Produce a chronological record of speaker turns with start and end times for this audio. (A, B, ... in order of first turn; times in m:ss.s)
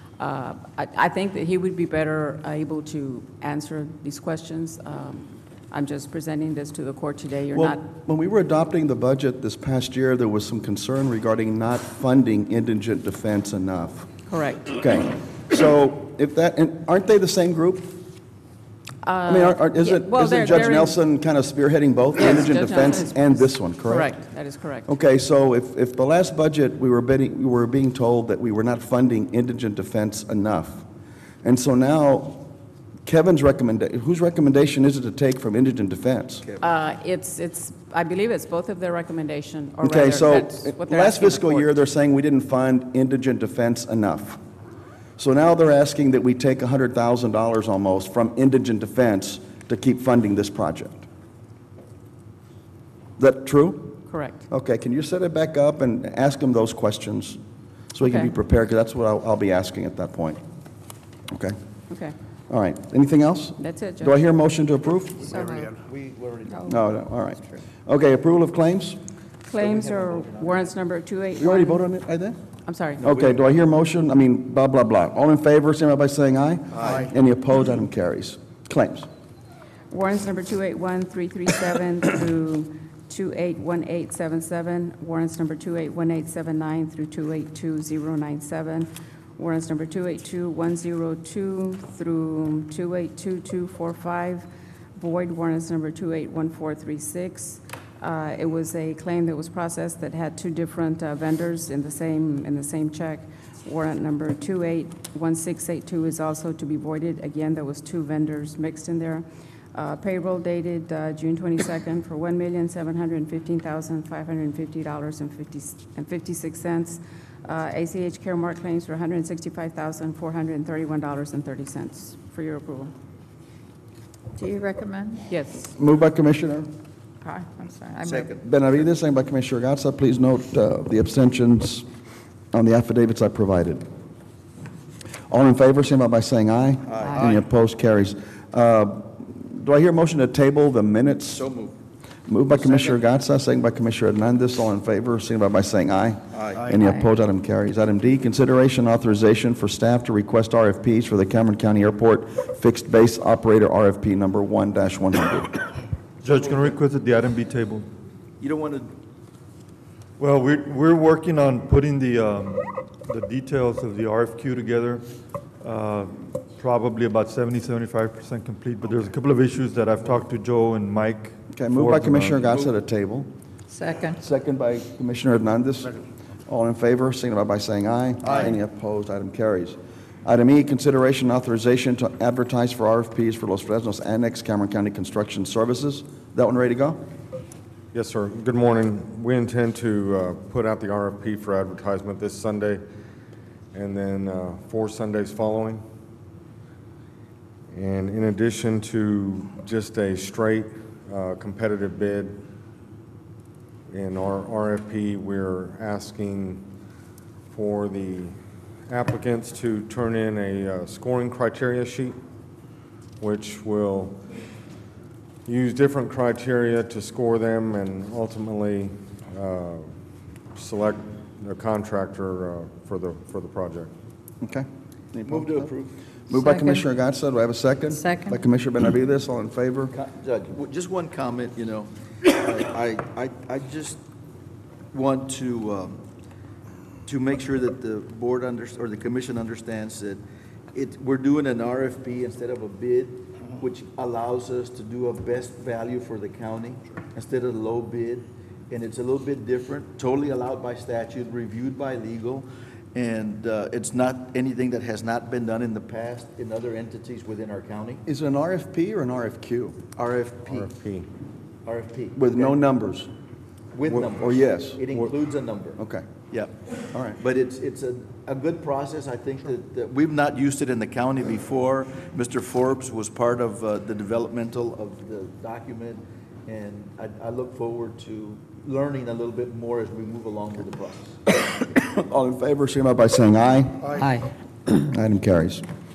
0:00.2-0:07.8 A
0:07.5-0:14.1 B
0:14.3-0:14.7 A
0:14.6-0:18.0 B
0:19.0-0:21.0 A
0:19.3-0:24.2 B
0:22.2-0:24.9 A
0:24.9-0:30.8 B
0:31.4-0:32.5 B
0:33.0-0:36.5 B
0:36.6-0:41.7 A
0:39.8-0:44.4 B
0:45.2-0:51.1 B
0:53.2-0:54.0 B
0:54.1-0:54.4 A
0:54.5-0:57.4 B
0:57.9-1:00.4 B
0:58.0-0:58.3 A
1:01.3-1:01.6 B
1:01.9-1:02.2 A
1:02.5-1:05.3 B
1:03.6-1:04.2 A
1:05.2-1:06.8 C
1:05.3-1:05.7 D
1:06.5-1:06.8 D
1:06.7-1:09.0 B
1:09.5-1:11.8 A
1:09.6-1:10.8 C
1:11.4-1:12.4 B
1:12.7-1:13.1 A
1:13.0-1:19.1 B
1:13.0-1:13.4 C
1:19.9-2:02.9 A
2:04.4-2:05.2 D
2:05.3-2:05.7 A
2:05.8-2:06.7 B
2:07.2-2:08.4 D
2:08.0-2:08.4 C
2:08.4-2:11.9 B
2:12.5-2:13.8 B
2:15.3-2:21.4 B
2:16.9-2:17.3 C
2:21.3-2:21.8 C
2:22.3-2:35.6 B
2:26.3-2:26.7 C
2:36.2-2:37.9 E
2:38.4-2:38.9 C
2:40.2-2:45.1 E
2:45.6-2:52.4 E
2:51.5-2:53.3 B
2:53.7-2:54.2 D
2:54.1-3:07.0 B
3:07.9-3:12.8 F
3:13.7-3:15.8 F
3:17.7-3:22.4 F
3:23.9-3:26.7 F
3:27.5-3:28.4 F
3:28.9-3:32.2 F
3:33.2-3:34.2 F
3:35.5-3:39.9 F
3:40.6-3:43.9 F
3:44.4-3:45.7 B
3:45.3-3:46.0 C
3:46.3-3:49.9 B
3:46.3-3:46.9 D
3:47.9-3:48.4 D
3:49.9-3:54.0 C
3:54.9-3:56.0 C
3:57.0-4:00.2 C
4:00.7-4:18.0 C
4:18.1-4:19.8 B
4:20.0-4:20.7 C
4:20.5-4:21.1 F
4:21.6-4:22.6 C
4:22.2-4:23.1 B
4:23.7-4:26.5 C
4:24.1-4:24.9 B
4:25.8-4:26.1 B
4:26.9-4:27.2 B
4:27.2-4:41.2 C
4:41.7-4:44.1 B
4:44.7-4:45.6 B